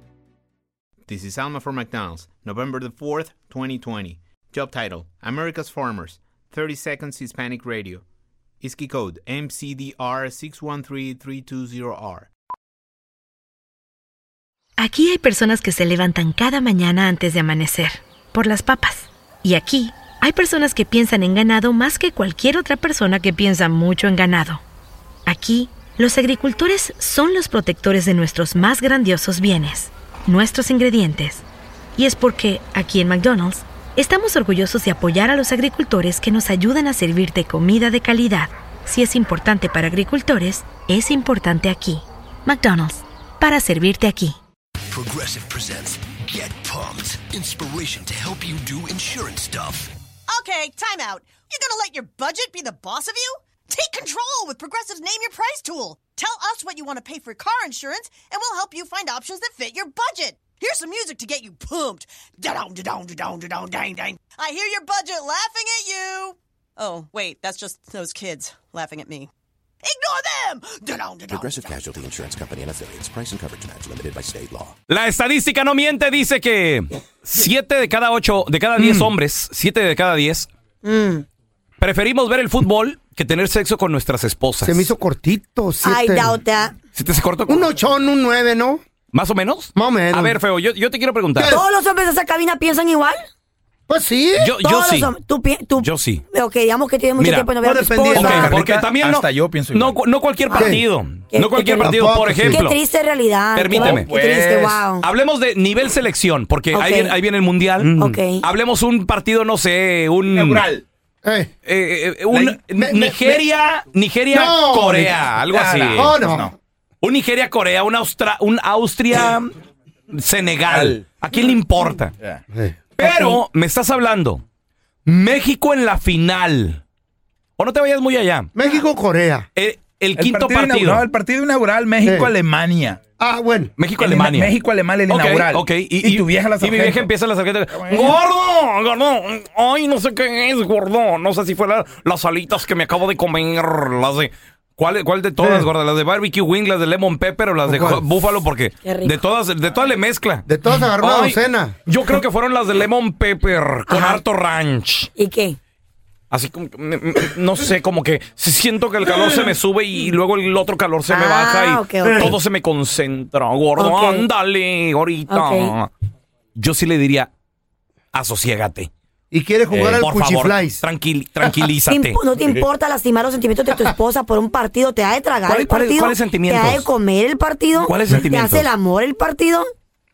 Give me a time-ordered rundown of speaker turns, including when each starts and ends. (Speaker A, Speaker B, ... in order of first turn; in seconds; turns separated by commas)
Speaker A: 1.1-8.0, Speaker A: 8.6-12.3, Speaker B: 14.8-24.6, Speaker B: 25.3-31.4, Speaker B: 32.0-44.4, Speaker C: 44.9-49.9, Speaker D: 50.3-62.1, Speaker D: 64.4-69.3, Speaker D: 69.9-70.7, Speaker C: 71.3-74.8, Speaker E: 74.9-80.5, Speaker F: 78.8-79.1, Speaker G: 80.8-81.2, Speaker E: 81.8-84.9, Speaker F: 84.6-86.3, Speaker G: 85.8-86.8, Speaker E: 87.0-87.7, Speaker F: 87.5-88.8, Speaker E: 89.1-91.6, Speaker F: 89.8-90.4, Speaker F: 91.3-91.6, Speaker G: 91.4-93.3, Speaker F: 93.9-94.6, Speaker E: 94.4-95.1, Speaker G: 94.6-98.6, Speaker E: 95.8-96.2, Speaker E: 97.2-97.5, Speaker F: 97.6-98.4, Speaker E: 98.1-102.8, Speaker H: 98.4-100.0, Speaker G: 100.5-100.8, Speaker F: 100.5-100.8, Speaker G: 101.3-101.9, Speaker F: 101.8-102.6, Speaker G: 102.5-105.0, Speaker E: 103.5-104.1, Speaker H: 103.8-104.8, Speaker E: 105.0-110.7, Speaker G: 106.7-107.2, Speaker G: 108.0-108.5, Speaker H: 110.3-110.8, Speaker F: 111.2-111.5, Speaker E: 111.7-116.2, Speaker F: 112.3-113.4, Speaker F: 114.3-115.2, Speaker H: 115.5-116.5, Speaker F: 116.0-116.5, Speaker E: 117.0-119.5, Speaker E: 120.1-122.2, Speaker H: 120.7-121.0, Speaker F: 122.5-123.4, Speaker E: 123.0-124.4, Speaker E: 125.1-126.8, Speaker E: 127.6-128.5, Speaker F: 128.6-129.5, Speaker E: 129.6-131.1, Speaker H: 130.2-133.0, Speaker F: 132.0-132.3, Speaker F: 133.2-133.8, Speaker E: 133.8-155.1, Speaker H: 134.0-137.1, Speaker H: 137.7-138.1, Speaker F: 145.4-145.7, Speaker F: 147.7-148.1, Speaker G: 148.8-149.2, Speaker F: 150.5-151.8, Speaker G: 153.9-154.2, Speaker G: 155.2-155.6, Speaker E: 156.3-165.9, Speaker F: 159.1-159.5, Speaker G: 161.1-162.3, Speaker F: 162.0-162.4, Speaker G: 163.8-164.3, Speaker G: 165.3-165.7, Speaker E: 166.6-167.3, Speaker E: 168.1-168.9, Speaker F: 169.3-170.8, Speaker E: 170.0-172.2, Speaker G: 171.9-179.7, Speaker E: 175.5-176.9, Speaker E: 177.8-178.7